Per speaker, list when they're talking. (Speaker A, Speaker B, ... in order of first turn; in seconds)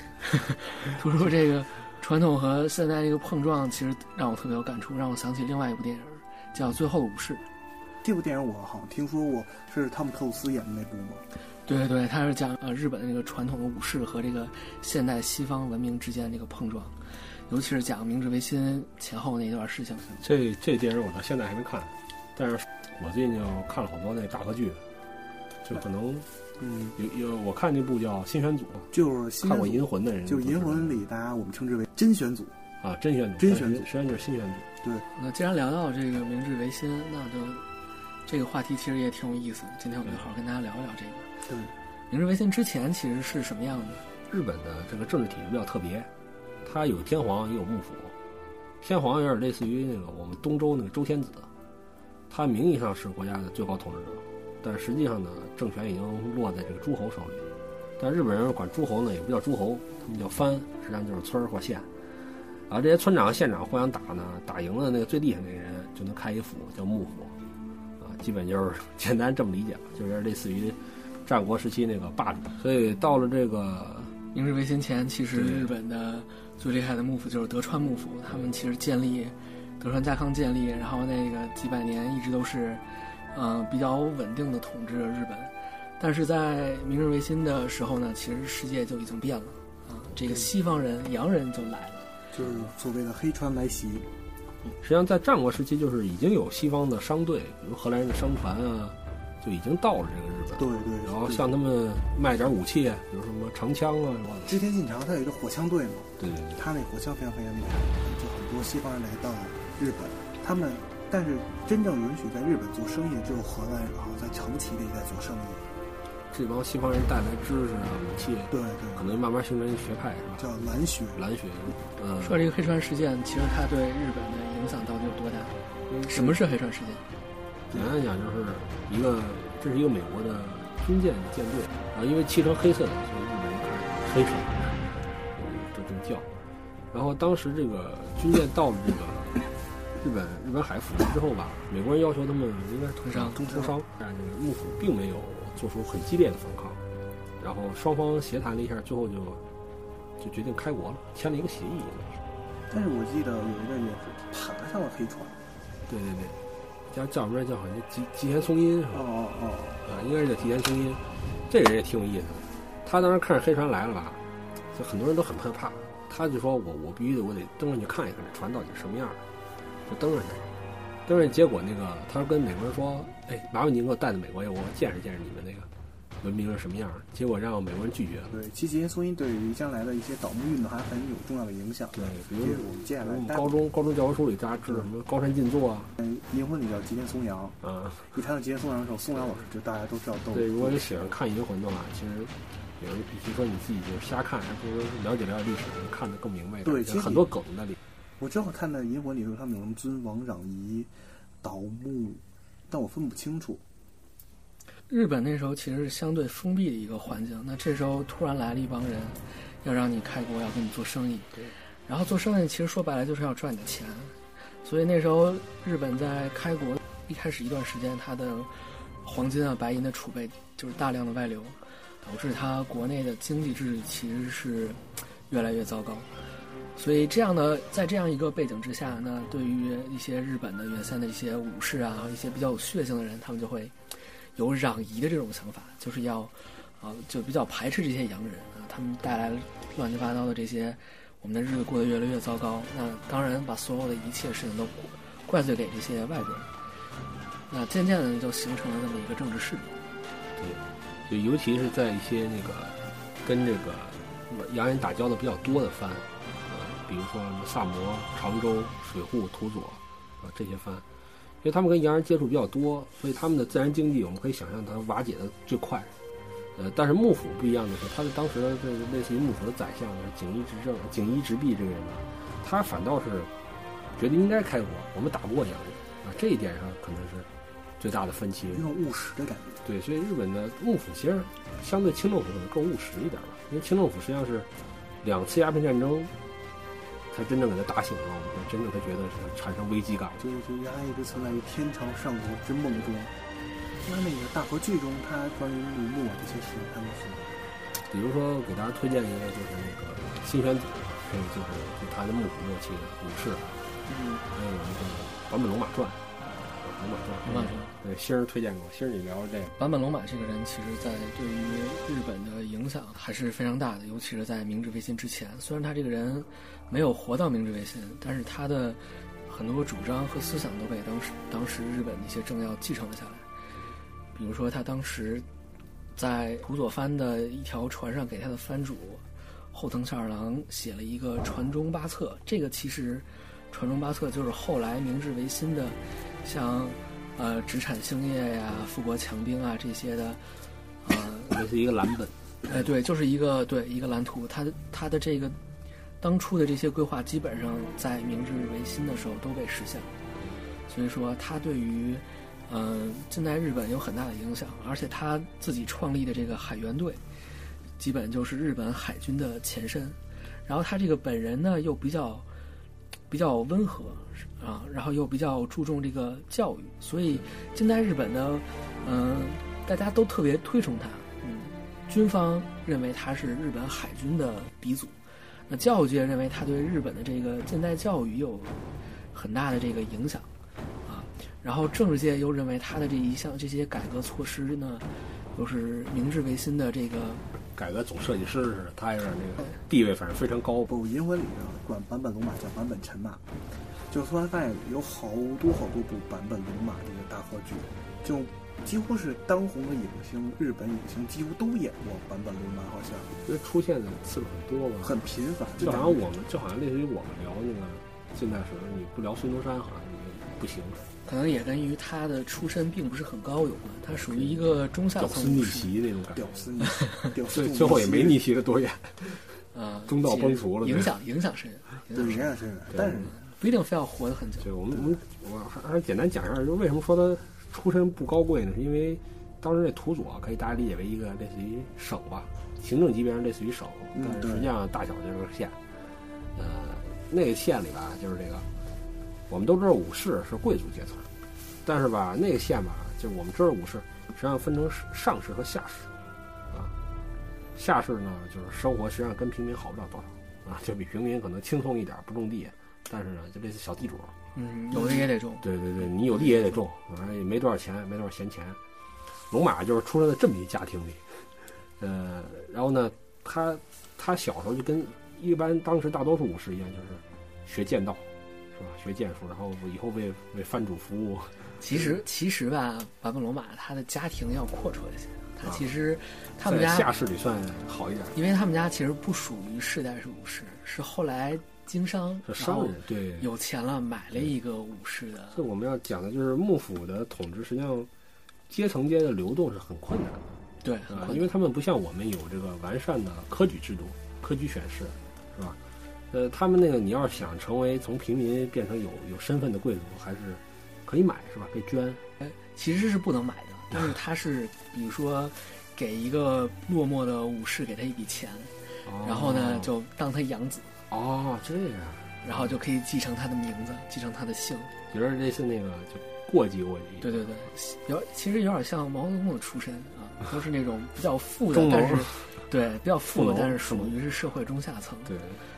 Speaker A: 0.2-7.5, 11.7-20.0, 35.1-37.6, 38.2-41.3, 42.1-44.0, 74.3-92.1, 122.2-125.5, 126.1-127.0, 143.0-143.4, 204.9-226.1, 226.8-233.7, 234.3-246.5, 247.5-249.7, 307.2-307.7, 309.6-323.2, 324.1-325.2, 325.9-340.3, 340.8-341.4, 342.5-345.4, 346.0-349.9, 350.7-357.0, 357.8-362.2, 363.1-375.0, 375.5-380.3, 380.8-387.2, 411.0-415.7, 419.5-422.2, 423.2-424.5, 454.3-455.4, 471.6-476.9, 478.1-485.4, 490.6-491.3, 502.2-510.7, 512.2-514.7, 517.0-525.1
Speaker B: 8.0-11.2, 26.6-26.9, 28.9-32.5, 33.4-33.9, 41.5-41.7, 90.2-90.5, 92.3-94.1, 100.6-101.5, 104.5-115.6, 118.5-119.1, 120.4-121.2, 125.9-126.4, 143.3-143.7, 152.7-155.4, 158.9-159.8, 178.3-183.5, 186.0-187.6, 188.1-191.1, 196.6-197.3, 198.2-200.9, 201.4-203.6, 278.5-279.6, 290.2-293.1, 293.8-297.4, 303.9-304.2, 390.7-393.2, 393.9-403.1, 404.8-406.0, 416.1-418.2, 421.9-423.2, 433.9-434.5
Speaker C: 20.2-24.8, 25.6-26.2, 26.9-31.0, 32.8-34.7, 44.3-46.1, 46.6-48.1, 48.8-51.5, 52.3-57.4, 58.0-61.9, 62.7-67.3, 68.0-74.1, 75.3-75.7, 94.8-104.6, 106.2-106.6, 116.3-120.6, 121.1-122.4, 127.7-136.3, 136.9-146.8, 147.4-149.4, 150.2-152.2, 155.9-156.3, 156.9-159.1, 159.8-164.2, 164.7-169.2, 169.8-170.4, 171.1-175.7, 176.2-178.3, 181.9-185.9, 187.6-188.1, 190.3-197.8, 250.4-260.8, 261.4-265.9, 266.6-273.3, 274.0-277.3, 277.8-278.6, 279.6-284.5, 285.0-286.1, 287.1-290.2, 297.9-303.5, 304.3-309.5, 341.3-342.1, 387.5-390.7, 403.2-405.0, 405.6-410.8, 413.9-414.4, 414.9-416.3, 417.3-419.2, 419.9-420.9, 422.7-423.1, 424.4-435.6, 436.3-438.4, 439.3-441.1, 441.6-445.9, 447.5-454.1, 455.4-458.6, 459.3-461.3, 461.8-471.8, 476.4-478.1, 482.2-483.3, 485.3-487.9, 488.5-490.3, 490.9-495.6, 496.1-502.0, 508.8-509.7, 510.9-512.5, 514.9-517.3, 521.5-522.3, 523.1-523.9, 525.0-525.4